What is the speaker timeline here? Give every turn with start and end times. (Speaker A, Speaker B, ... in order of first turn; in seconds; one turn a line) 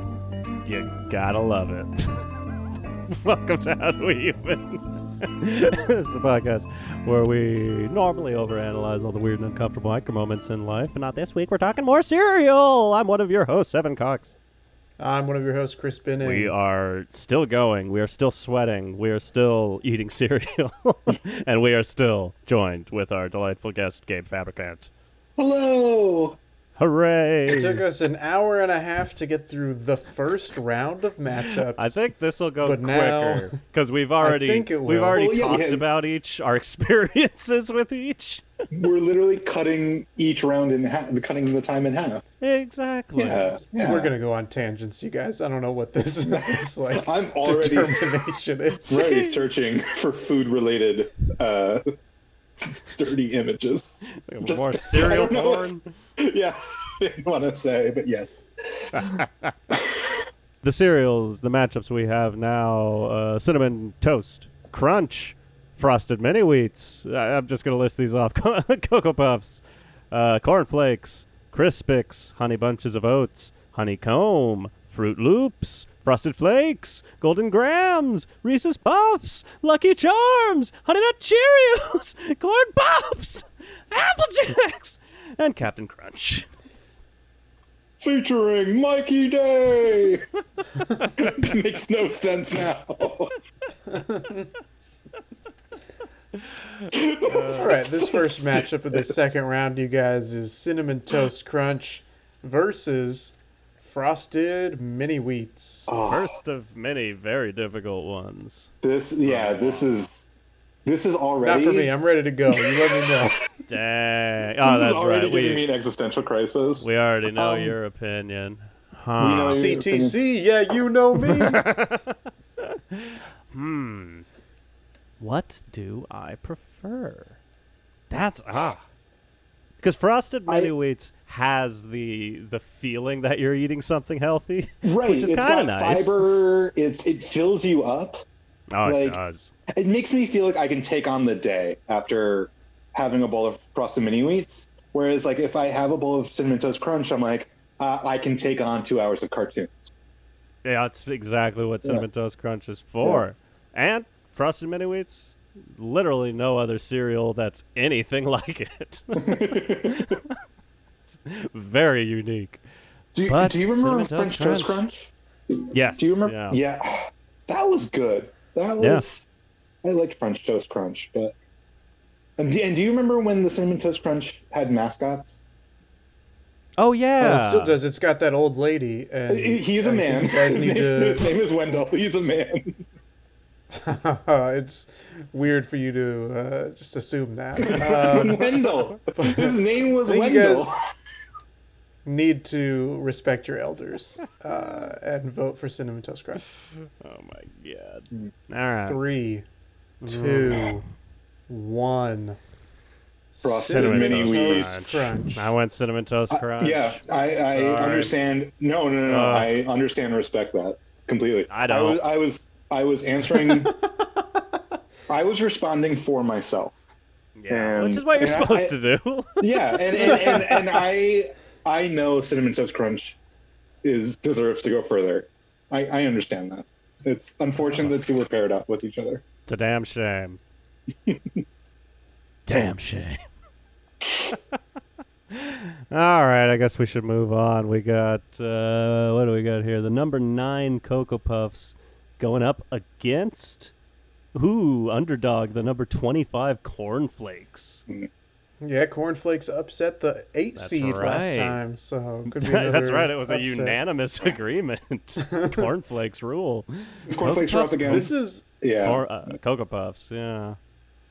Speaker A: 0.6-2.3
Speaker A: 3.1-14.3
Speaker B: 15.0-16.5
Speaker A: 16.2-24.9
Speaker C: 25.4-26.4
Speaker A: 26.8-27.7
Speaker B: 27.5-32.0
Speaker A: 31.6-38.4
Speaker B: 32.6-33.6
Speaker B: 34.2-35.3
Speaker C: 35.1-35.9
Speaker C: 38.7-42.2
Speaker A: 42.4-43.5
Speaker C: 43.2-44.1
Speaker B: 43.8-49.1
Speaker C: 46.3-48.3
Speaker C: 48.9-51.8
Speaker A: 48.9-49.4
Speaker C: 52.9-60.3
Speaker A: 54.2-55.9
Speaker A: 58.9-59.5
Speaker A: 60.6-86.5
Speaker C: 88.0-90.2
Speaker C: 91.0-93.3
Speaker B: 93.9-94.5
Speaker C: 96.9-99.1
Speaker B: 97.5-105.9
Speaker C: 105.9-106.4
Speaker A: 106.0-108.7
Speaker C: 108.8-110.3
Speaker A: 109.2-110.1
Speaker C: 110.8-111.9
Speaker B: 111.4-113.4
Speaker C: 112.8-113.3
Speaker A: 113.7-115.6
Speaker C: 114.6-117.8
Speaker A: 116.8-119.7
Speaker C: 119.2-120.2
Speaker B: 119.5-121.6
Speaker A: 121.2-124.2
Speaker A: 125.2-127.4
Speaker A: 128.1-128.8
Speaker A: 129.8-136.2
Speaker C: 134.8-138.2
Speaker A: 138.7-139.5
Speaker C: 138.8-139.2
Speaker C: 139.7-149.9
Speaker A: 150.6-160.4
Speaker C: 159.2-160.2
Speaker A: 161.2-162.6
Speaker C: 163.1-165.1
Speaker A: 163.3-164.8
Speaker A: 165.7-166.6
Speaker C: 165.7-169.2
Speaker A: 168.8-169.0
Speaker C: 169.8-171.3
Speaker C: 172.4-175.4
Speaker A: 176.8-177.8
Speaker B: 177.2-181.3
Speaker C: 179.3-182.8
Speaker B: 183.7-188.6
Speaker C: 187.6-190.8
Speaker B: 189.1-190.8
Speaker B: 192.0-196.4
Speaker A: 197.0-199.0
Speaker B: 198.9-199.4
Speaker A: 200.0-200.8
Speaker B: 200.0-200.8
Speaker B: 201.5-202.4
Speaker B: 203.3-205.5
Speaker C: 203.4-204.7
Speaker A: 203.6-208.1
Speaker C: 206.3-213.7
Speaker A: 209.1-209.5
Speaker A: 211.5-212.0
Speaker B: 213.4-213.7
Speaker C: 215.1-216.8
Speaker A: 217.3-220.4
Speaker C: 217.5-218.7
Speaker C: 219.4-223.2
Speaker B: 220.1-220.7
Speaker C: 223.8-229.2
Speaker A: 227.6-227.9
Speaker A: 229.5-230.4
Speaker C: 231.1-231.4
Speaker A: 232.5-233.2
Speaker A: 235.3-243.7
Speaker A: 244.3-247.8
Speaker B: 248.6-253.8
Speaker A: 250.6-251.6
Speaker A: 252.3-258.1
Speaker B: 255.3-255.7
Speaker C: 257.1-259.0
Speaker B: 257.9-258.4
Speaker A: 258.8-260.6